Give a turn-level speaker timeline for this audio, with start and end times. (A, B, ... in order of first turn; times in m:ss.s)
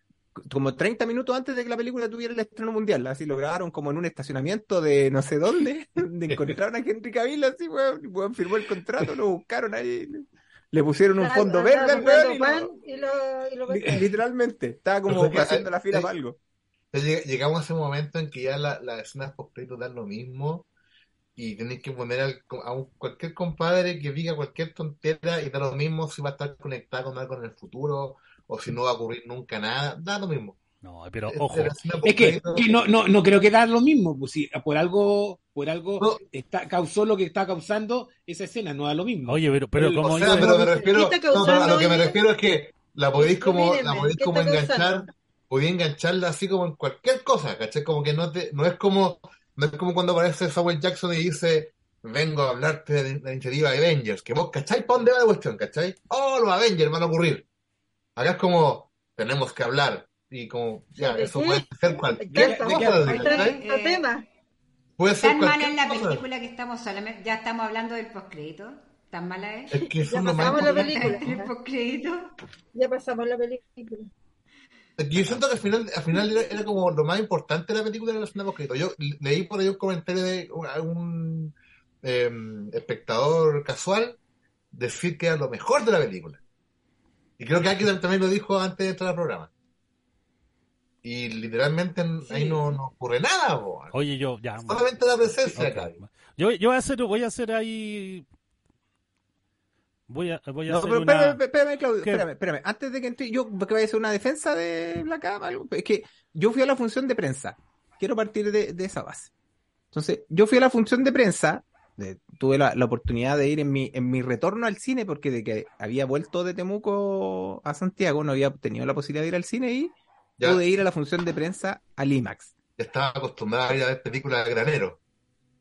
0:00.3-0:12.7 A
0:11.1-0:14.1 B
0:13.9-0:16.4 A
0:15.1-0:16.1 C
0:16.9-0:20.7 C
0:21.4-0:30.6 C
0:30.8-0:31.8 D
0:31.3-0:32.8 C
0:32.0-0:40.4 E
0:39.2-0:40.6 D
0:40.0-0:57.4 C
0:40.3-0:42.2 B
0:43.2-0:44.9 B
0:58.2-1:03.6 C
1:01.0-1:04.2 B
1:02.3-1:03.3 E
1:03.1-1:04.0 F
1:05.0-1:06.2 C
1:05.2-1:12.3 F
1:09.7-1:11.2 C
1:10.0-1:11.5 B
1:12.7-1:14.1 B
1:15.0-1:24.2 C
1:24.7-1:26.4 C
1:27.4-1:29.5 C
1:31.0-1:33.9 C
1:33.9-1:34.8 D
1:34.6-1:36.0 C
1:35.4-1:38.2 D
1:40.1-1:41.4 D
1:40.7-1:49.3 A
1:49.9-2:02.5 A
2:02.8-2:05.0 C